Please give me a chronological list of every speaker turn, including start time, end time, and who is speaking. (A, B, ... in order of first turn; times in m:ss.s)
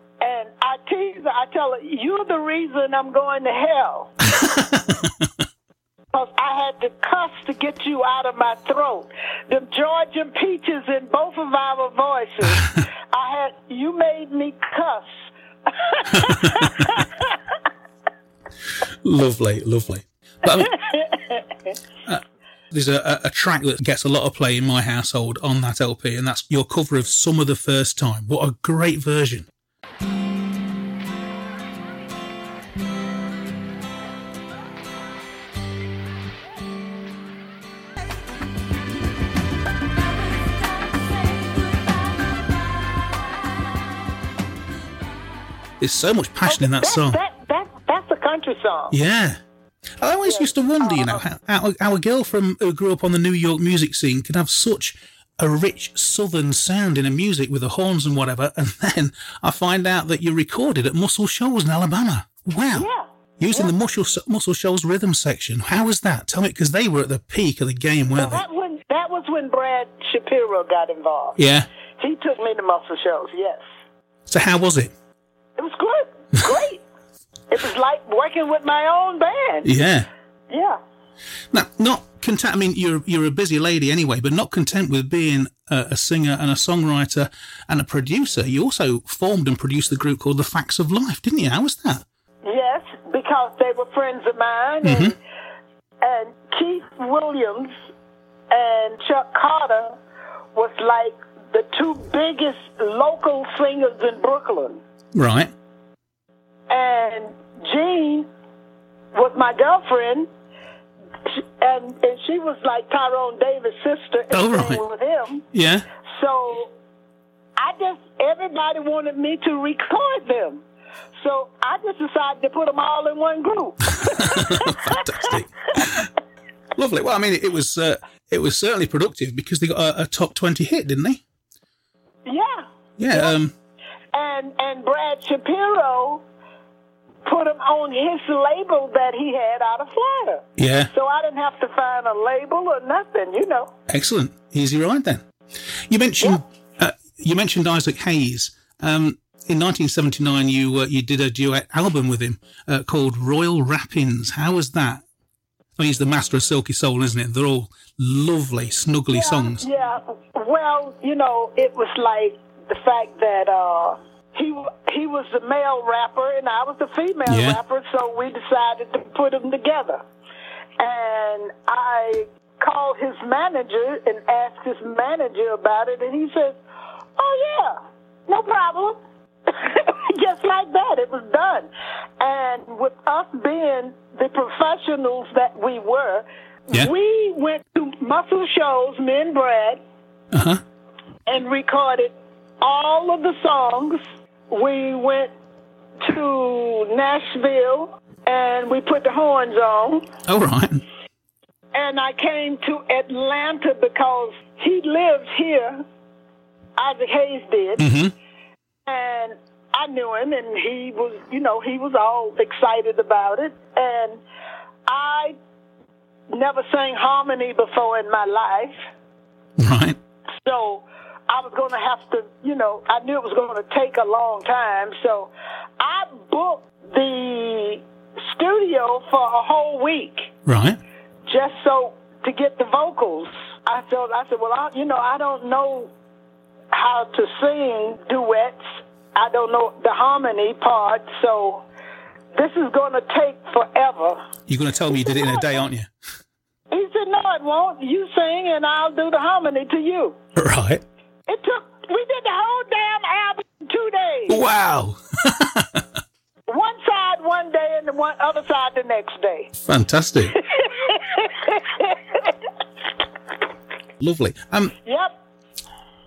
0:00.2-0:04.1 A
0:04.4-0:05.3 B
0:06.1-0:15.1 A
0:12.5-0:12.8 B
0:15.7-0:17.3 A
0:16.1-0:17.0 B
0:19.0-0:20.7 B
0:20.5-0:21.5 A
0:22.1-0:29.5 B
0:45.8-0:47.2 B
0:46.5-0:49.0 A
0:48.9-0:49.4 B
0:50.0-1:02.9 B
0:50.2-0:51.2 A
1:02.7-1:03.7 A
1:03.4-1:08.4 B
1:08.2-1:11.4 A
1:11.4-1:11.7 B
1:12.0-1:13.6 A
1:14.3-1:14.9 B
1:15.6-1:16.8 A
1:17.5-1:19.7 A
1:19.6-1:20.1 B
1:20.5-1:20.8 A
1:21.5-1:32.0 B
1:32.4-1:35.2 A
1:34.8-1:35.2 B
1:36.0-1:37.8 A
1:38.5-1:40.0 A
1:40.6-1:44.8 A
1:45.1-1:45.5 B
1:46.7-1:48.3 A
1:49.1-1:50.3 A
1:51.3-1:55.5 A
1:54.3-1:54.8 B
1:55.5-1:55.8 B
1:56.1-1:56.7 A
1:57.6-2:00.6 A
2:01.2-2:05.3 A
2:04.0-2:06.1 B
2:06.8-2:11.2 B
2:12.3-2:13.4 A
2:13.0-2:13.5 B
2:14.1-2:16.2 A
2:17.2-2:23.7 A
2:20.6-2:20.9 B
2:23.9-2:25.2 B
2:25.9-2:35.0 B
2:35.8-2:39.6 B
2:39.1-2:50.0 A
2:47.3-2:47.6 B
2:50.8-2:56.6 A
2:57.2-3:01.7 A
3:02.2-3:09.8 A
3:10.3-3:10.6 B
3:11.3-3:14.0 A
3:14.5-3:15.3 A
3:16.0-3:20.1 A
3:20.3-3:20.8 B
3:21.7-3:25.8 A
3:26.8-3:27.9 A
3:27.8-3:28.1 B
3:28.9-3:34.2 A
3:34.9-3:35.4 A
3:36.3-3:38.8 A
3:39.6-3:40.0 B
3:40.4-3:50.3 A
3:50.5-3:50.8 B
3:51.3-3:55.9 A
3:56.7-4:01.6 A
4:02.4-4:04.2 A
4:04.5-4:05.9 B
4:04.9-4:05.6 A
4:06.7-4:10.2 A
4:10.4-4:10.8 B
4:11.3-4:14.4 A
4:14.3-4:15.9 B
4:16.5-4:19.5 A
4:19.6-4:20.4 B
4:20.3-4:22.3 A
4:24.0-4:24.7 B
4:24.8-4:25.2 A